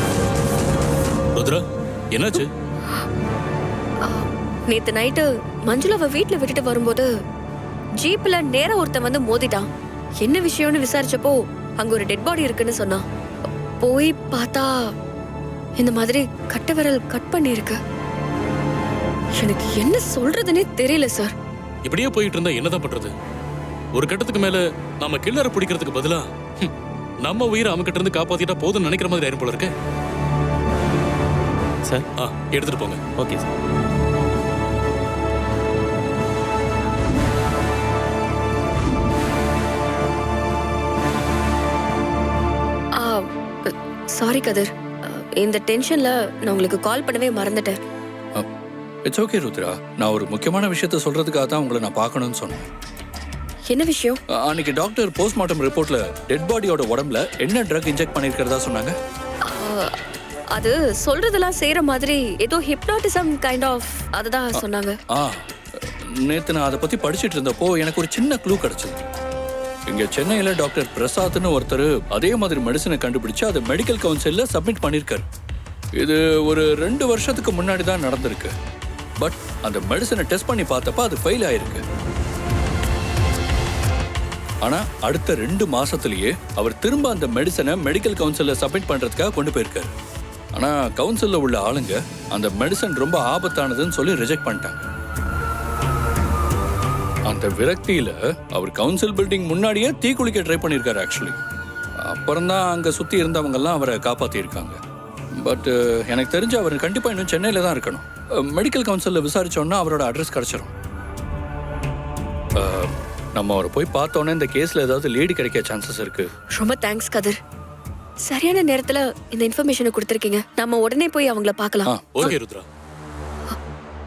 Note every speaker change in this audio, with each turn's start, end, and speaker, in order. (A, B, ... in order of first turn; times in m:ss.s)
0:01.4-0:02.5 A
0:04.0-0:07.1 B
0:08.0-0:09.7 B
0:10.2-0:13.0 B
0:13.8-0:14.9 B
0:15.8-0:17.8 B
0:19.4-0:21.3 B
0:21.8-0:23.1 A
0:23.9-0:26.7 A
0:27.2-0:29.7 A
0:32.2-0:33.2 A
0:43.0-0:47.8 B
0:49.0-0:52.7 C
0:53.7-0:54.2 B
0:54.3-0:59.0 C
0:59.5-1:00.0 B
1:00.5-1:05.0 B
1:04.5-1:09.1 C
1:09.9-1:15.3 C
1:16.0-1:18.5 C
1:19.2-1:21.8 C
1:24.6-1:29.9 C
1:30.5-1:34.8 C
1:37.2-1:41.4 C
1:42.0-1:44.8 C
1:45.4-1:50.7 C
1:52.6-1:56.3 C
1:56.5-1:57.4 B
1:58.2-2:02.3 B
2:01.9-2:02.3 C
2:02.2-2:02.6 A